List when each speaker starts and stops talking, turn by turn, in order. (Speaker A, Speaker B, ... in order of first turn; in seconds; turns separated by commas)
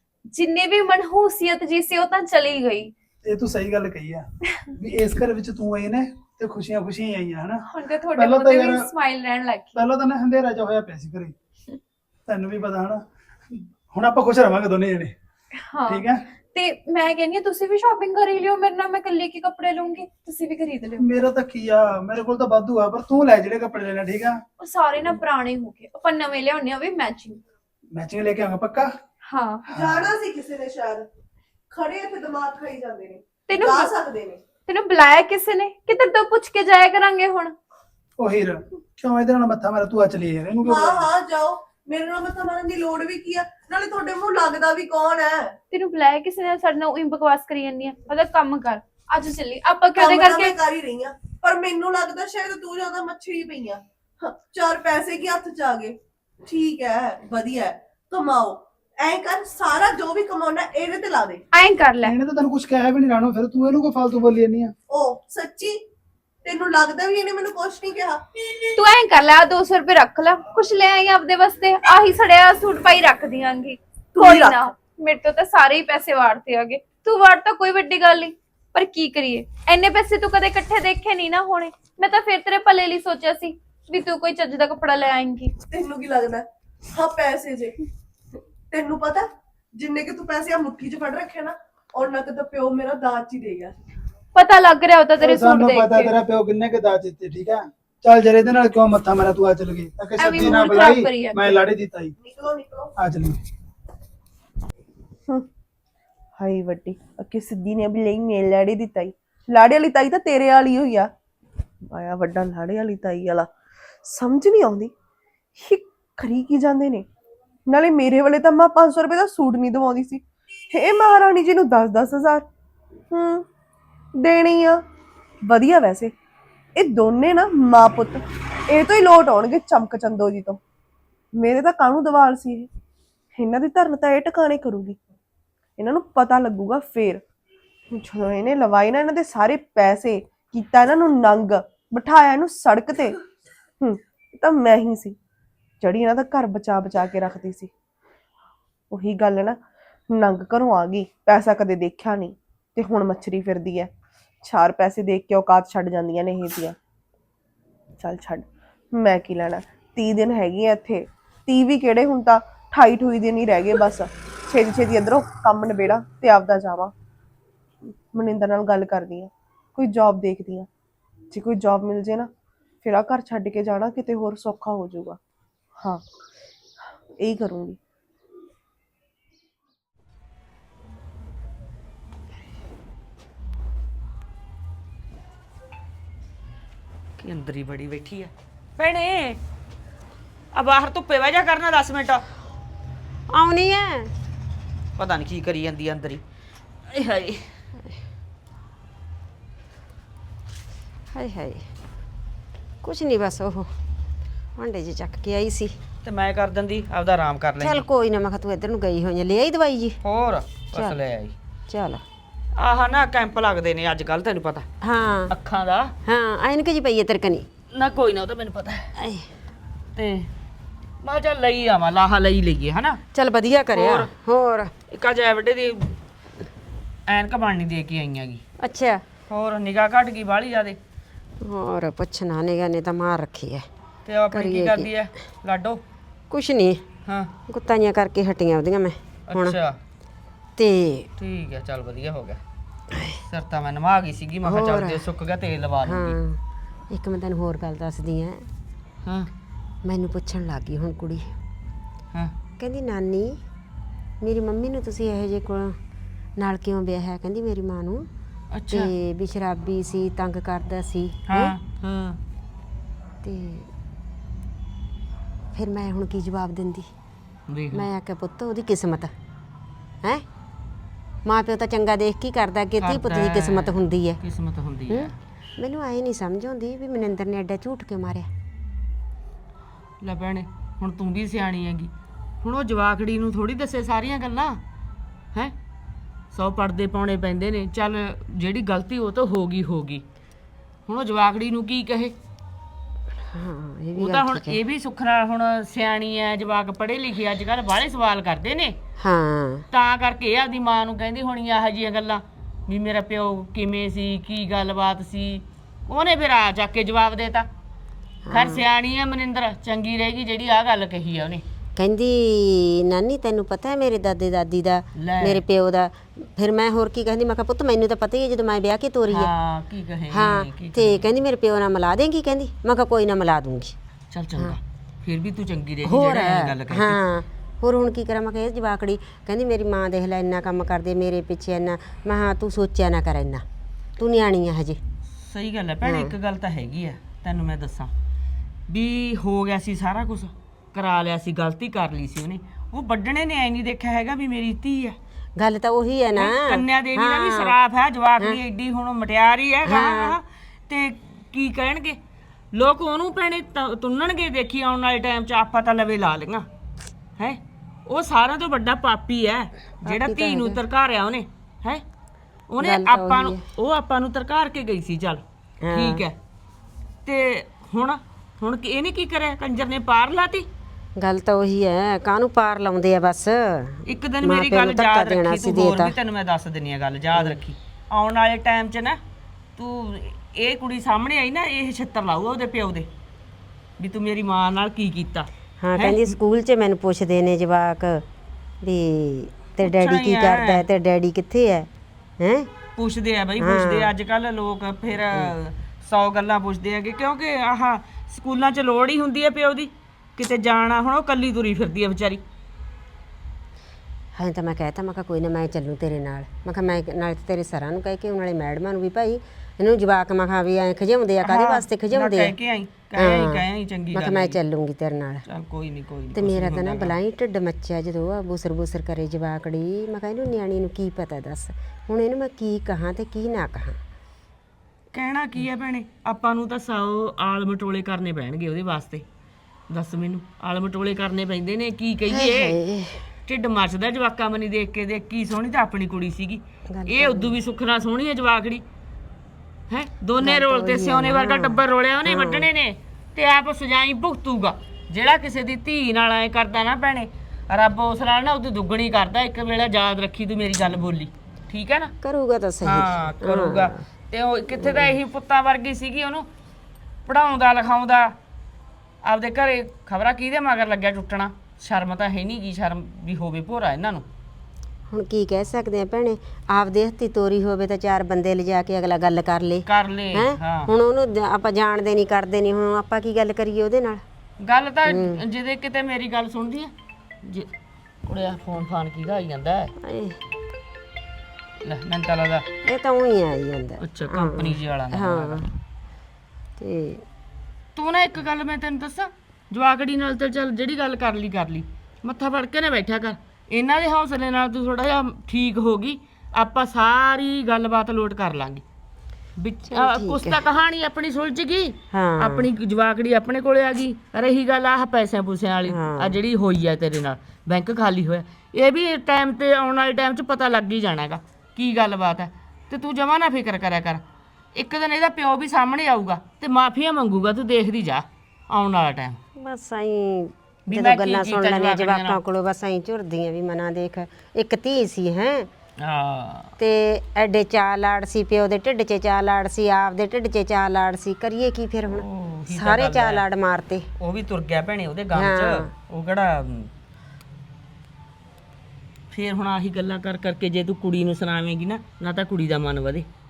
Speaker A: 0.3-2.9, Speaker B: 3.2-8.9, Speaker A: 7.7-9.8, Speaker B: 9.8-11.3, Speaker B: 12.3-13.0, Speaker B: 13.5-15.1, Speaker A: 15.6-21.1, Speaker B: 15.9-16.2, Speaker B: 21.0-24.4, Speaker A: 24.6-27.4, Speaker B: 27.9-28.9, Speaker A: 29.2-29.7, Speaker B: 29.7-30.1, Speaker C: 29.7-31.1, Speaker C: 31.7-34.4, Speaker A: 33.5-33.9, Speaker A: 34.7-37.5, Speaker B: 38.2-41.1, Speaker C: 40.6-45.6, Speaker A: 45.7-50.6, Speaker C: 49.9-61.4, Speaker A: 61.5-62.1, Speaker B: 62.0-64.7, Speaker C: 64.9-65.8, Speaker C: 66.4-68.2, Speaker A: 68.8-85.5, Speaker C: 74.1-74.7, Speaker C: 85.7-87.8, Speaker C: 88.7-93.8, Speaker A: 94.3-96.1, Speaker B: 95.2-102.1, Speaker A: 100.2-101.6, Speaker C: 102.2-102.9, Speaker B: 103.0-103.4, Speaker C: 106.4-111.1, Speaker C: 111.9-113.5, Speaker C: 114.0-114.9, Speaker C: 115.6-117.1, Speaker C: 117.7-122.5, Speaker C: 123.1-123.5, Speaker C: 124.2-124.8, Speaker C: 125.4-126.1, Speaker C: 126.8-130.6, Speaker C: 131.3-132.7, Speaker C: 133.3-135.0, Speaker C: 135.8-137.2, Speaker C: 137.9-143.2, Speaker C: 143.8-145.2, Speaker C: 145.8-147.7, Speaker C: 148.9-149.6, Speaker C: 150.1-153.9, Speaker C: 154.4-156.8, Speaker C: 158.0-166.9, Speaker C: 168.1-170.7, Speaker C: 171.3-172.3, Speaker C: 172.8-175.2, Speaker C: 177.2-177.8, Speaker D: 187.2-189.4, Speaker D: 190.5-192.2, Speaker E: 193.3-194.1, Speaker D: 195.0-196.2, Speaker D: 196.9-197.4, Speaker E: 201.1-201.7, Speaker E: 202.8-203.7, Speaker E: 204.6-205.7, Speaker D: 206.0-207.8, Speaker E: 207.6-210.0, Speaker D: 210.0-211.3, Speaker E: 211.7-212.0, Speaker D: 212.6-214.7, Speaker E: 214.8-215.3, Speaker D: 215.3-215.9, Speaker E: 216.0-217.5, Speaker D: 217.7-218.9, Speaker E: 219.0-219.3, Speaker D: 219.9-220.3, Speaker D: 221.0-223.0, Speaker E: 223.1-224.7, Speaker D: 223.7-224.1, Speaker D: 224.9-225.9, Speaker D: 227.1-228.4, Speaker E: 228.6-229.0, Speaker D: 229.3-230.8, Speaker E: 231.4-233.7, Speaker D: 234.1-235.8, Speaker E: 234.3-234.9, Speaker E: 236.3-236.8, Speaker D: 237.1-237.3, Speaker E: 237.5-239.6, Speaker D: 239.3-239.8, Speaker E: 240.6-241.1, Speaker D: 241.2-242.4, Speaker E: 242.9-243.2, Speaker D: 243.3-246.2, Speaker E: 244.4-245.0, Speaker E: 245.8-248.5, Speaker E: 249.8-251.3, Speaker E: 252.6-253.4, Speaker E: 254.2-255.8, Speaker E: 256.4-258.1, Speaker D: 258.5-258.9, Speaker E: 258.7-261.5, Speaker D: 261.3-262.2, Speaker E: 263.2-263.7, Speaker E: 265.5-266.9, Speaker D: 267.5-267.9, Speaker E: 267.7-269.1, Speaker E: 271.2-274.2, Speaker D: 272.8-275.1, Speaker E: 274.9-278.3, Speaker D: 280.0-284.6, Speaker D: 286.3-290.0, Speaker D: 290.9-292.1, Speaker E: 293.3-294.6, Speaker D: 293.9-298.7, Speaker E: 299.0-299.6, Speaker D: 299.7-307.5, Speaker E: 308.3-308.6, Speaker D: 308.3-311.4, Speaker E: 311.8-319.3, Speaker D: 315.0-315.4, Speaker D: 319.1-321.0, Speaker E: 320.1-323.8, Speaker D: 324.1-327.0, Speaker E: 325.8-333.4, Speaker E: 334.0-334.8, Speaker D: 335.1-337.9, Speaker E: 335.8-336.1, Speaker D: 338.7-345.0, Speaker E: 345.4-347.5, Speaker D: 346.1-352.0, Speaker E: 349.6-350.2, Speaker D: 352.5-356.4, Speaker D: 357.2-361.8, Speaker E: 359.8-360.6, Speaker D: 362.5-365.2, Speaker E: 362.6-363.4, Speaker E: 365.6-366.0, Speaker D: 365.7-366.1, Speaker D: 367.0-370.4, Speaker E: 371.0-375.9, Speaker D: 373.9-379.0, Speaker D: 379.6-382.9, Speaker D: 383.8-386.1, Speaker E: 385.6-388.0, Speaker E: 388.6-392.5, Speaker D: 389.6-390.6, Speaker D: 392.8-402.2, Speaker E: 393.4-393.9, Speaker E: 404.1-412.3, Speaker D: 411.2-414.4, Speaker E: 412.9-415.2, Speaker D: 415.3-416.9, Speaker E: 416.1-423.8, Speaker D: 424.9-429.0, Speaker D: 429.7-432.5, Speaker E: 432.1-433.1, Speaker D: 433.3-438.6, Speaker E: 436.7-437.4, Speaker D: 439.7-451.9, Speaker E: 440.2-442.5, Speaker E: 452.0-453.8, Speaker D: 452.6-456.3, Speaker E: 454.5-455.0, Speaker D: 457.1-458.1, Speaker D: 459.0-464.0, Speaker E: 464.9-474.0, Speaker D: 469.6-470.7, Speaker D: 474.4-476.7, Speaker E: 474.9-475.2, Speaker D: 477.2-477.5, Speaker D: 478.1-479.7, Speaker E: 479.8-480.2, Speaker D: 481.6-482.5, Speaker E: 482.6-485.5, Speaker D: 483.8-485.5, Speaker E: 486.6-487.0, Speaker D: 487.8-498.6, Speaker D: 499.4-514.0, Speaker E: 499.7-500.4, Speaker E: 501.9-502.4, Speaker E: 505.6-506.2, Speaker D: 514.5-519.2, Speaker E: 519.4-525.5, Speaker D: 520.7-522.2, Speaker D: 525.8-526.5, Speaker E: 526.6-533.9, Speaker D: 531.9-533.2, Speaker D: 534.0-536.7, Speaker E: 535.1-535.7, Speaker D: 539.1-543.0